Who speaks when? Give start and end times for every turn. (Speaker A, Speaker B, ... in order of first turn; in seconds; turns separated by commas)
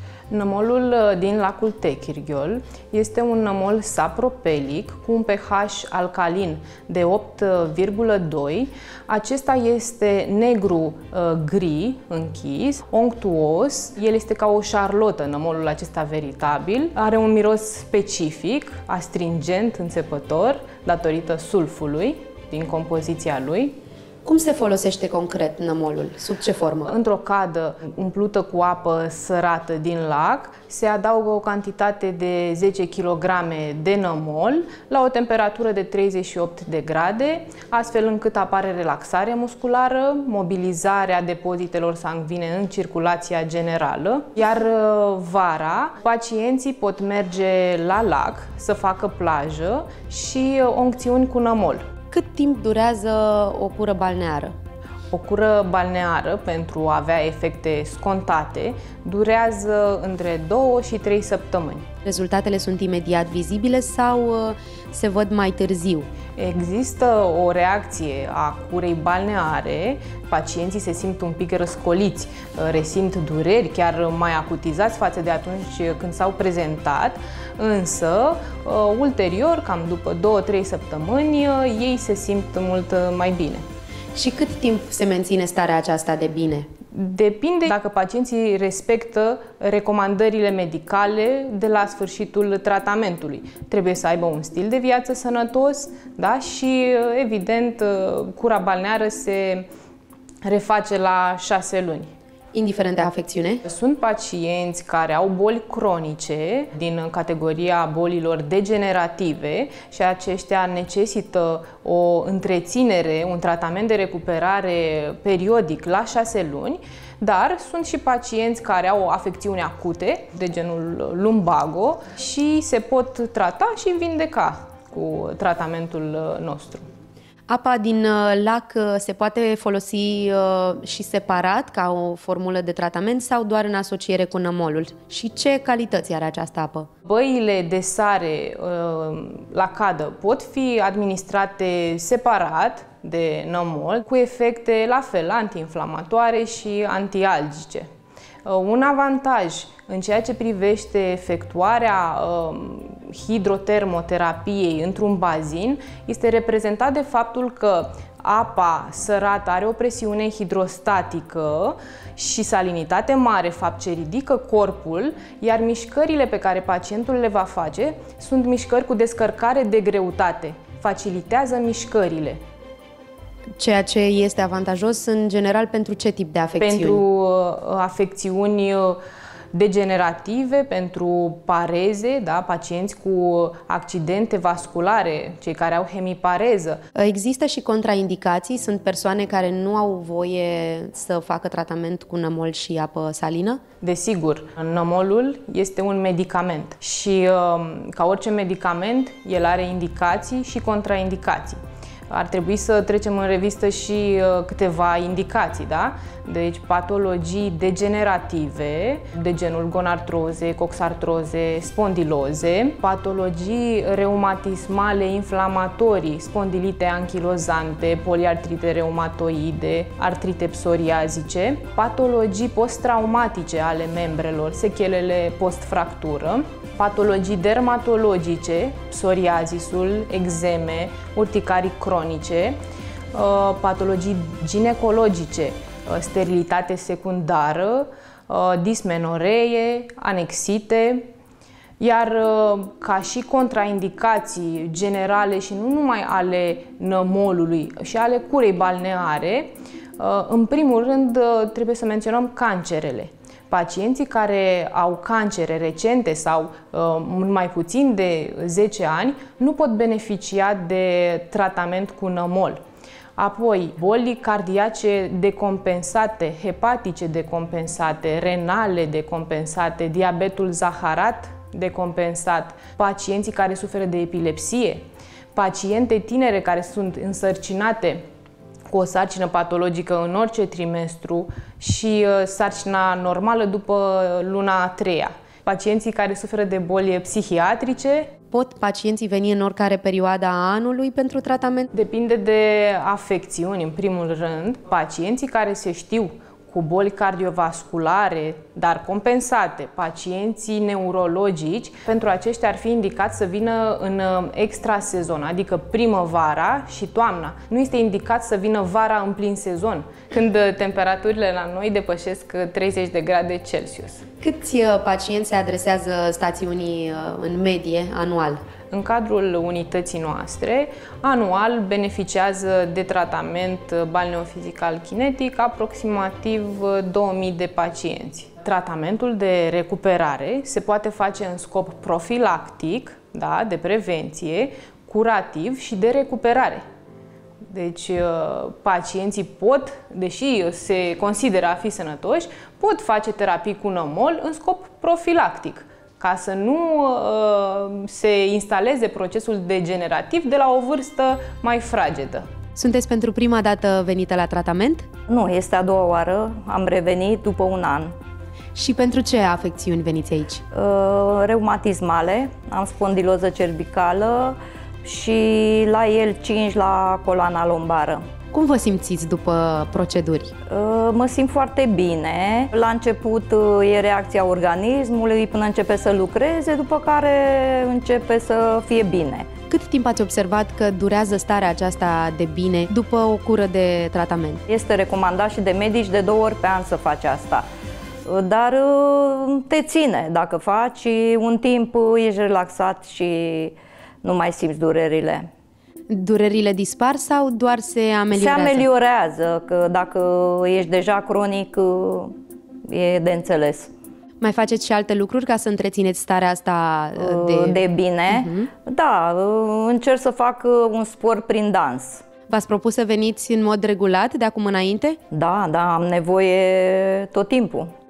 Speaker A: 0.3-23.8, Speaker B: 24.2-26.9, Speaker A: 26.9-51.9, Speaker B: 52.1-54.5, Speaker A: 55.1-61.9, Speaker B: 62.0-66.1, Speaker A: 66.4-83.7, Speaker B: 84.2-86.7, Speaker A: 86.9-99.7, Speaker A: 100.4-102.1, Speaker B: 102.5-103.6, Speaker A: 103.7-126.9, Speaker B: 127.5-136.9, Speaker A: 137.1-147.9, Speaker A: 148.4-172.4, Speaker B: 173.6-177.0, Speaker A: 176.6-179.0, Speaker A: 179.5-186.8, Speaker B: 186.9-193.6, Speaker A: 193.8-232.6, Speaker A: 233.1-241.1, Speaker A: 241.8-262.6, Speaker A: 263.2-278.1, Speaker A: 278.7-288.1, Speaker B: 288.3-291.7, Speaker A: 291.7-314.1, Speaker B: 314.2-318.4, Speaker A: 318.7-336.6, Speaker A: 337.5-352.3, Speaker B: 352.6-354.9, Speaker C: 355.1-358.0, Speaker B: 358.6-360.4, Speaker C: 360.5-368.1, Speaker B: 368.3-370.4, Speaker C: 370.5-379.3, Speaker B: 379.5-384.4, Speaker C: 384.5-387.5, Speaker C: 388.1-395.3, Speaker B: 395.9-398.6, Speaker C: 398.1-403.7, Speaker B: 404.2-408.5, Speaker C: 407.0-412.0, Speaker B: 412.3-415.0, Speaker C: 415.1-417.7